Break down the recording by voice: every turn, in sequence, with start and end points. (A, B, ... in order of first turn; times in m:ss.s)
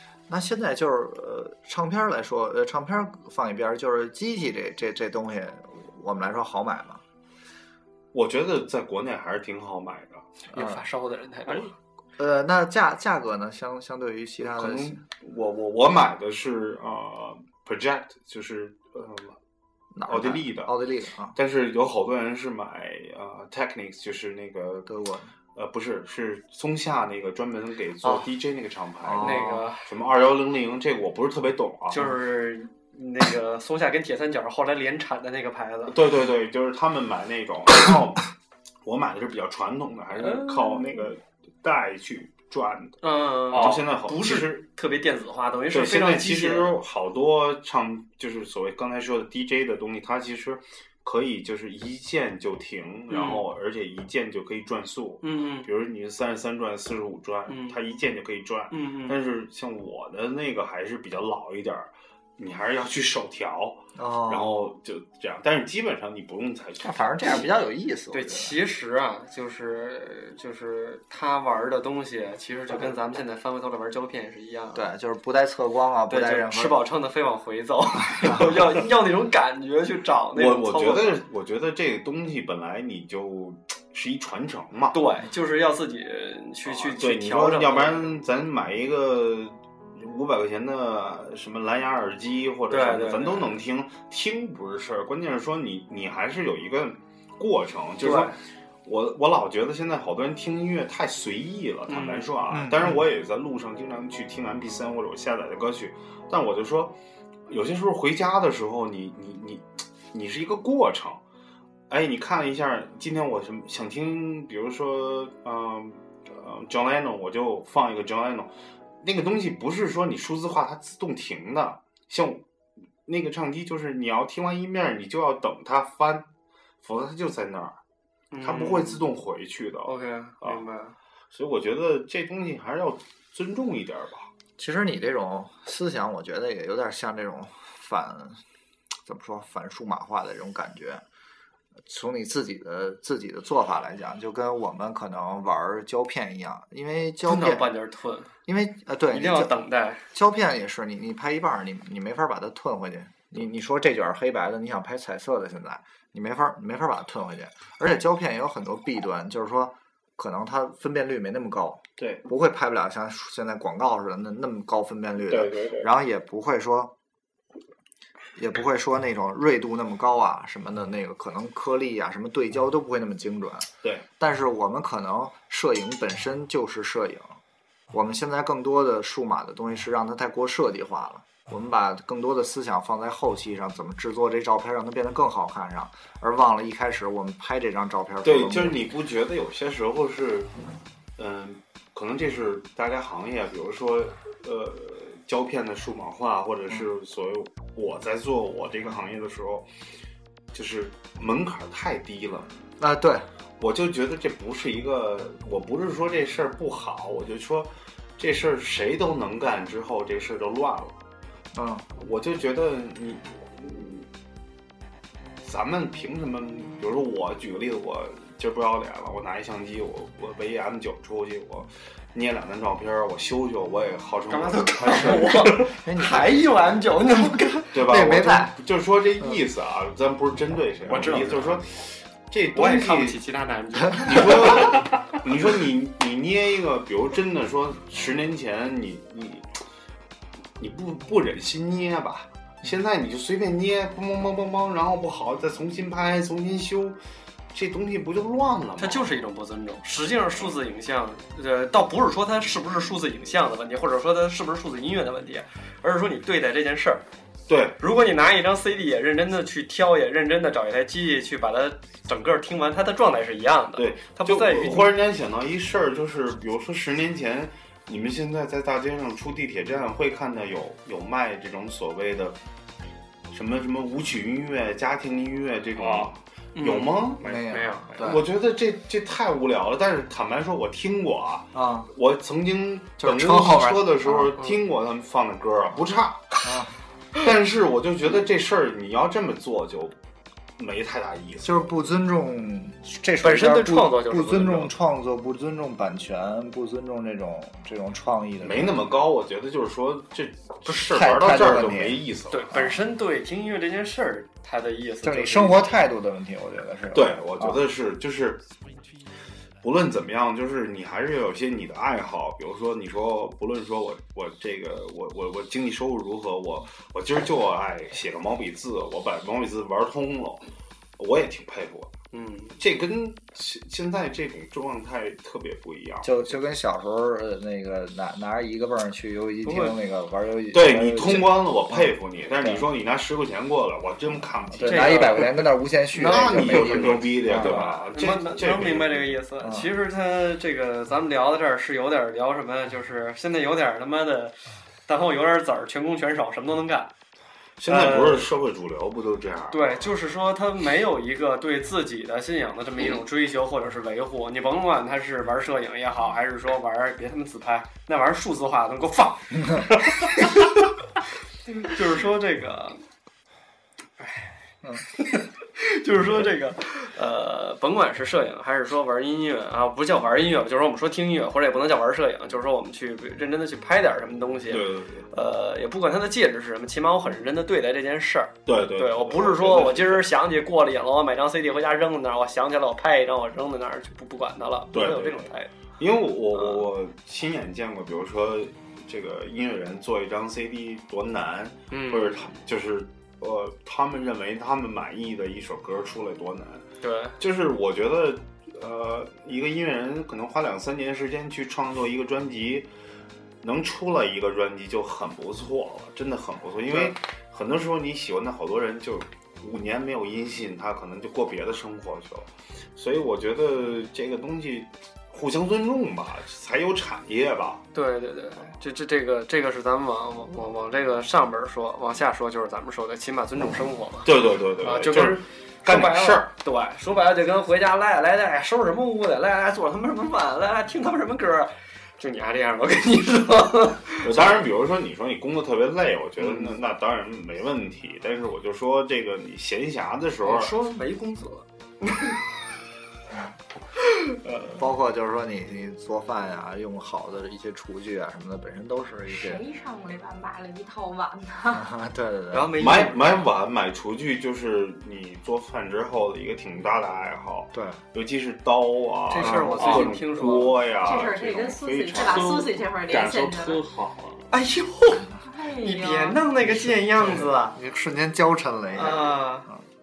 0:00.3-0:07.0 A
0:08.1-0:10.3 B
0:10.5-0:11.7 C
0:10.5-0:10.8 A
0:12.2-0:15.0 A
0:14.4-0:19.4 B
0:19.9-0:21.4 A
0:20.1-0:20.7 B
0:21.3-0:24.9 B
0:24.8-0:25.3 A
0:25.5-0:32.1 B
0:28.0-0:28.3 C
0:29.0-0:29.7 A
0:29.2-0:29.9 C
0:31.9-0:36.0 C
0:35.9-0:38.3 B
0:38.8-0:43.0 B
0:40.3-0:40.8 C
0:43.0-0:46.8 C
0:43.5-0:44.6 B
0:43.5-0:43.8 D
0:45.7-1:07.4 B
0:53.1-0:53.4 C
0:55.2-0:55.7 C
0:57.5-0:57.8 C
0:58.7-0:59.2 C
1:04.0-1:04.5 A
1:06.8-1:08.6 A
1:08.1-1:14.8 C
1:14.7-1:16.8 A
1:16.1-1:21.2 C
1:18.2-1:18.5 A
1:20.3-1:25.0 B
1:24.9-1:28.1 C
1:26.6-1:47.0 B
1:32.7-1:33.6 C
1:38.0-1:38.3 C
1:41.9-1:42.3 C
1:42.5-1:43.0 A
1:47.5-1:51.2 B
1:51.9-2:02.4 B
2:03.0-2:06.3 B
2:06.8-2:07.8 B
2:08.3-2:09.0 C
2:08.4-2:10.6 B
2:09.8-2:11.0 C
2:11.3-2:14.3 B
2:14.6-2:18.4 A
2:19.0-2:21.0 A
2:21.8-2:27.7 A
2:27.2-2:28.3 C
2:28.4-2:29.5 A
2:29.1-2:30.0 C
2:30.1-2:46.9 A
2:42.0-2:42.2 B
2:45.3-2:45.9 B
2:48.4-2:53.7 A
2:54.2-2:57.4 A
2:57.9-3:08.8 A
3:08.2-3:10.5 B
3:11.2-3:19.7 B
3:20.5-3:22.5 B
3:22.8-3:23.3 A
3:23.6-3:30.9 B
3:31.5-3:31.8 A
3:32.0-3:34.1 B
3:35.4-3:45.6 B
3:44.3-3:47.8 C
3:45.6-3:46.4 A
3:47.7-3:53.2 B
3:47.8-3:48.5 A
3:50.9-3:51.6 C
3:52.5-3:54.8 C
3:54.0-3:59.4 B
4:00.6-4:07.0 B
4:07.5-4:09.1 B
4:08.8-4:17.0 C
4:17.5-4:17.8 B
4:17.8-4:24.9 C
4:23.8-4:32.4 B
4:33.3-4:37.2 B
4:35.8-4:36.1 D
4:36.6-4:38.1 C
4:37.2-4:38.0 D
4:37.2-4:38.2 A
4:38.0-4:46.3 B
4:41.5-4:41.9 A
4:43.0-4:44.3 A
4:46.4-4:46.7 A
4:47.2-4:50.0 B
4:50.6-4:51.7 B
4:51.4-4:58.8 A
4:53.2-4:54.7 C
4:58.4-5:02.8 B
5:00.6-5:02.0 A
5:02.3-5:05.7 C
5:05.0-5:07.6 A
5:06.9-5:08.5 B
5:09.6-5:21.9 B
5:22.1-5:22.6 C
5:22.6-5:26.3 B
5:26.0-5:32.7 A
5:29.4-5:29.8 C
5:30.5-5:35.3 B
5:34.5-5:37.8 A
5:34.6-5:35.4 C
5:35.9-5:46.9 C
5:36.0-5:39.1 B
5:39.4-5:39.7 A
5:47.6-5:49.8 B
5:47.6-5:48.3 C
5:49.5-6:00.6 C
6:01.6-6:02.8 C
6:04.0-6:04.3 C
6:04.9-6:25.5 C
6:14.5-6:15.1 B
6:18.4-6:20.1 B
6:24.7-6:36.6 B
6:26.3-6:26.6 C
6:31.7-6:32.3 C
6:36.8-6:37.2 C
6:37.2-6:42.7 B
6:43.4-6:57.6 B
6:57.7-7:14.4 C
7:04.0-7:06.3 B
7:14.0-7:20.5 B
7:16.2-7:16.5 C
7:20.2-7:22.2 C
7:24.2-7:24.6 C
7:24.5-7:29.4 A
7:29.1-7:31.7 E
7:31.5-7:32.6 A
7:32.3-7:33.2 C
7:32.6-7:42.3 B
7:37.5-7:37.8 A
7:39.1-7:40.6 C
7:39.2-7:39.9 A
7:40.8-7:43.6 E
7:41.9-7:44.3 D
7:44.3-7:45.1 C
7:45.2-7:46.2 E
7:45.6-7:47.6 C
7:46.4-7:49.6 A
7:48.7-7:49.5 C